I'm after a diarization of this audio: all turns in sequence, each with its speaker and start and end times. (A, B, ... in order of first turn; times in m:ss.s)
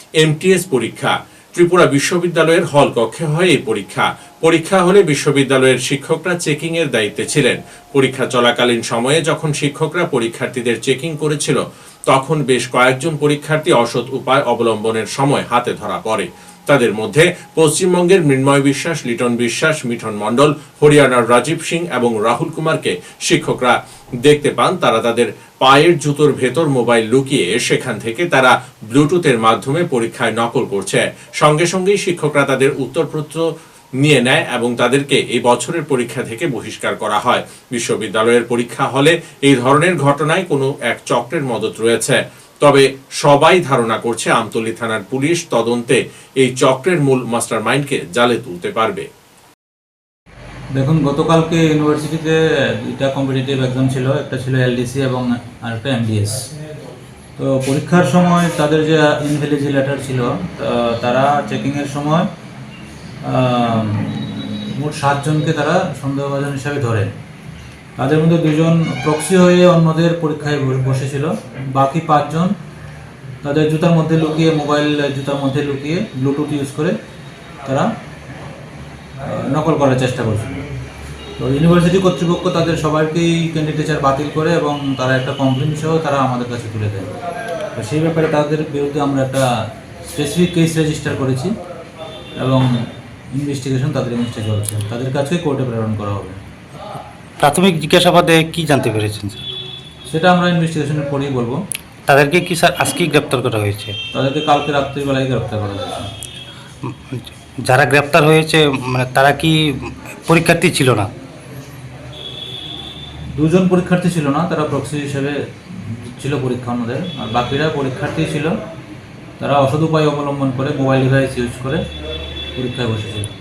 0:00.2-0:33.4 A
0:34.0-0:49.1 A
0:50.8-0:52.4 B
0:52.9-0:56.5 B
0:57.4-1:02.3 B
1:03.2-1:07.1 B
1:08.0-1:12.5 B
1:13.4-1:16.9 B
1:19.2-1:20.6 B
1:21.4-1:27.2 B
1:27.8-1:29.4 B
1:30.1-1:31.5 B
1:32.4-1:32.7 B
1:33.4-1:36.4 B
1:37.4-1:39.5 C
1:40.1-1:41.6 B
1:42.1-1:44.0 C
1:44.1-1:46.1 B
1:46.8-1:51.1 C
1:53.4-1:58.5 B
1:59.4-2:01.8 B
2:02.6-2:03.3 B